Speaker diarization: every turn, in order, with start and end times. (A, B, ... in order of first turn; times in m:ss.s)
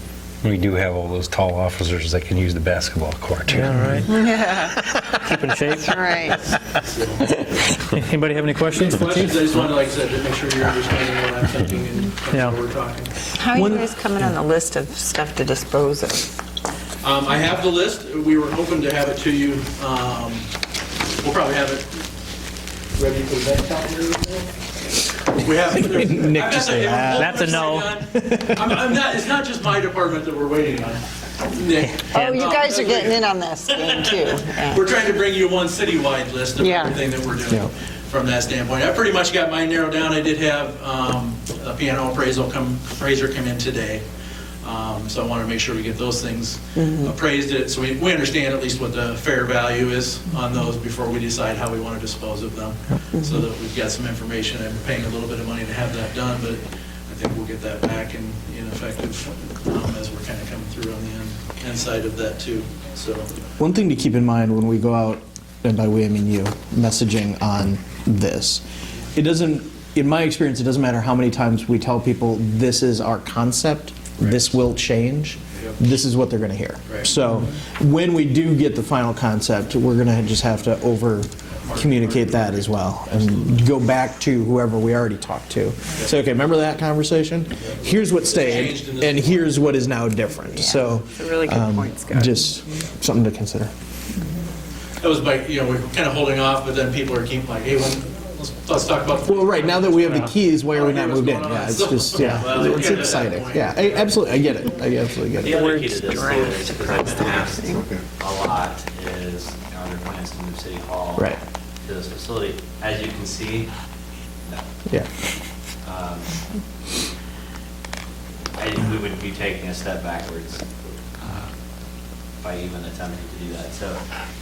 0:00.4-0:04.0 A
0:03.5-0:04.1 B
0:04.0-0:05.0 C
0:05.2-0:06.3 B
0:05.7-0:06.4 C
0:06.6-0:07.7 D
0:07.8-0:09.7 B
0:08.7-0:13.1 D
0:12.3-0:12.6 B
0:13.4-0:16.3 C
0:13.5-0:13.9 E
0:17.0-0:20.5 D
0:21.2-0:22.0 D
0:23.0-0:24.5 D
0:25.2-0:44.0 D
0:25.7-0:28.7 E
0:27.1-0:27.9 B
0:32.1-0:34.8 C
0:36.6-0:36.9 C
0:44.6-1:03.3 D
0:46.8-0:47.1 C
0:53.1-0:53.4 C
1:03.6-1:08.6 E
1:09.1-1:33.7 E
1:21.6-1:23.6 D
1:28.1-1:29.5 D
1:30.6-1:32.4 C
1:35.0-1:44.2 D
1:39.2-1:45.6 E
1:42.2-1:43.3 F
1:45.4-1:53.7 F
1:45.6-1:46.0 B
1:46.0-1:47.8 C
1:55.8-1:56.4 F
1:58.6-2:00.6 F
2:01.2-2:01.5 F
2:02.4-2:04.0 F